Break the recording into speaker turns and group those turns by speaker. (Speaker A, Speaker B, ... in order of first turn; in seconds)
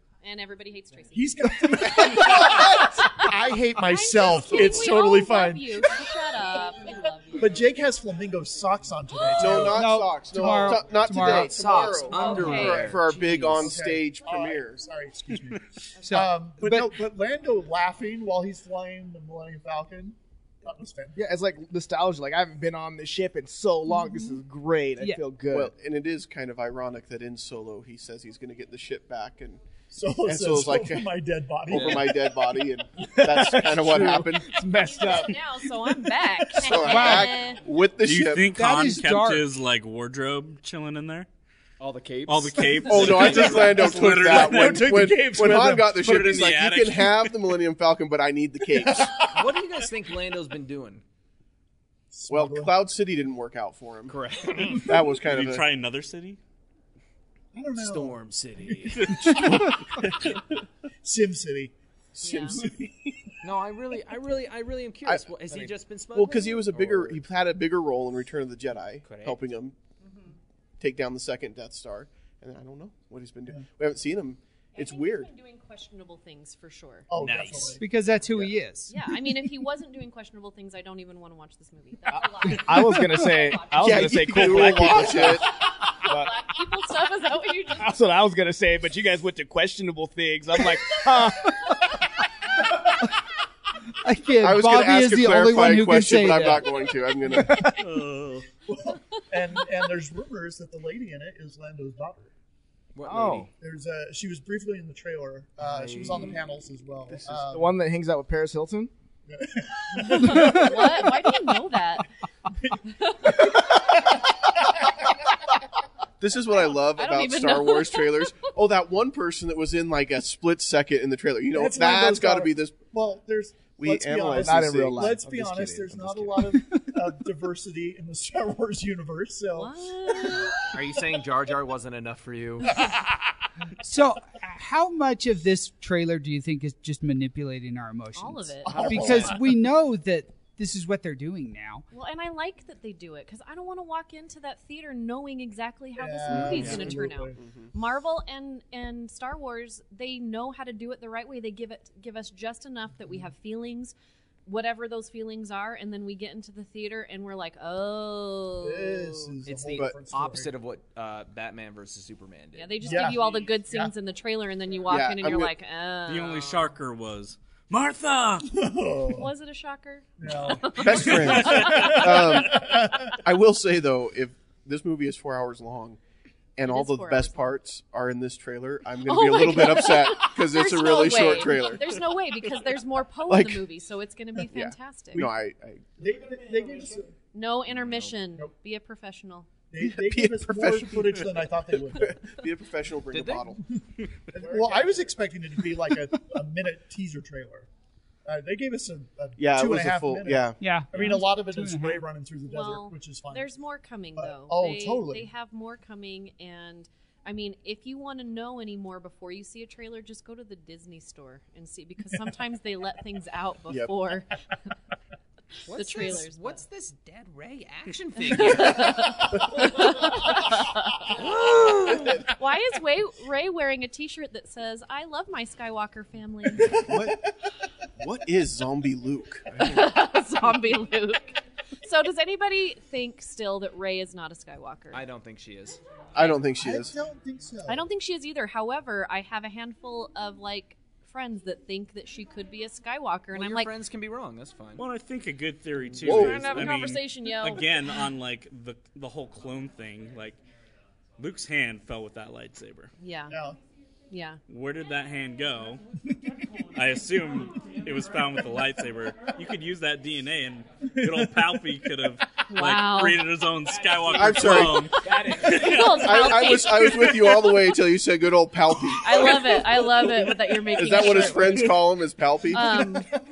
Speaker A: 0.2-7.7, 12.1-12.9, 24.0-24.4, 34.7-37.7, 62.2-62.6, 70.0-70.3, 74.8-77.1, 78.9-88.0, 110.0-112.1, 113.0-113.6, 116.9-118.5, 129.6-130.6, 138.2-139.3, 141.9-153.9, 154.5-159.4, 162.5-166.8, 169.1-171.9, 176.7-177.6, 179.0-185.3, 187.3-189.5, 202.5-214.3, 215.7-216.6, 218.2-221.1, 222.1-226.9, 229.6-235.0, 237.7-243.7, 246.0-247.7, 253.0-253.4, 254.1-254.4, 262.5-263.3, 264.4-267.4, 269.0-271.8, 272.5-273.1
Speaker B: 1.1-6.3, 7.3-10.9, 12.1-21.2, 29.9-32.1, 43.2-46.0, 52.1-52.7, 57.5-60.2, 61.0-61.7, 62.5-63.3, 77.1-77.8, 97.3-97.8, 98.7-102.3, 103.6-107.8, 109.3-111.1, 112.5-114.8, 121.5-130.9, 132.7-133.1, 138.7-139.5, 145.9-147.4, 158.6-160.5, 162.8-163.9, 168.5-169.3, 170.2-173.2, 186.0-187.2, 189.7-192.2, 194.3-197.7, 198.2-203.5, 204.2-205.3, 226.6-227.3, 236.6-237.8, 253.3-253.6, 261.0-261.3, 269.4-271.8
Speaker C: 9.3-14.8, 25.5-29.6, 30.2-31.1, 31.7-34.5, 36.6-38.5, 42.9-49.1, 52.3-55.6, 59.3-60.1, 62.2-62.7, 66.1-69.8, 70.8-75.3, 83.7-85.5, 94.4-97.7, 116.2-122.8, 123.8-125.2, 146.3-147.7, 164.9-165.5, 170.7-176.0, 176.6-182.0, 183.3-183.7, 184.4-185.9, 189.8-193.6, 199.4-201.2, 226.9-227.2, 228.0-229.5, 236.2-236.9, 246.0-246.6, 264.1-264.9, 266.0-269.4, 270.7-272.9
Speaker D: 9.7-11.5, 16.0-16.9, 25.0-25.2, 36.8-37.3, 38.4-39.5, 77.8-79.0, 94.0-96.7, 133.8-141.8, 200.6-202.0
Speaker E: 11.3-13.8, 31.7-32.1, 41.8-43.5, 49.3-51.0, 54.1-54.9, 57.8-59.3, 63.4-67.2, 69.0-69.4, 77.2-77.8, 103.0-103.5, 105.9-106.3, 130.7-132.8, 159.4-163.2, 187.7-188.2, 193.1-193.5, 215.7-219.1, 221.1-222.2, 234.9-235.8, 243.3-244.8
Speaker F: 21.2-25.7, 33.0-36.6, 82.1-86.5, 87.8-91.8, 103.0-103.5, 105.7-106.3, 107.1-108.9, 124.3-126.6, 194.4-195.0, 265.1-265.6
Speaker G: 38.0-41.3, 42.3-45.0, 45.8-47.3, 55.1-56.4, 59.0-59.4, 97.6-98.5, 146.5-146.9, 166.1-168.5, 171.2-172.0, 244.8-250.4, 251.2-252.9, 254.5-255.8, 256.7-266.3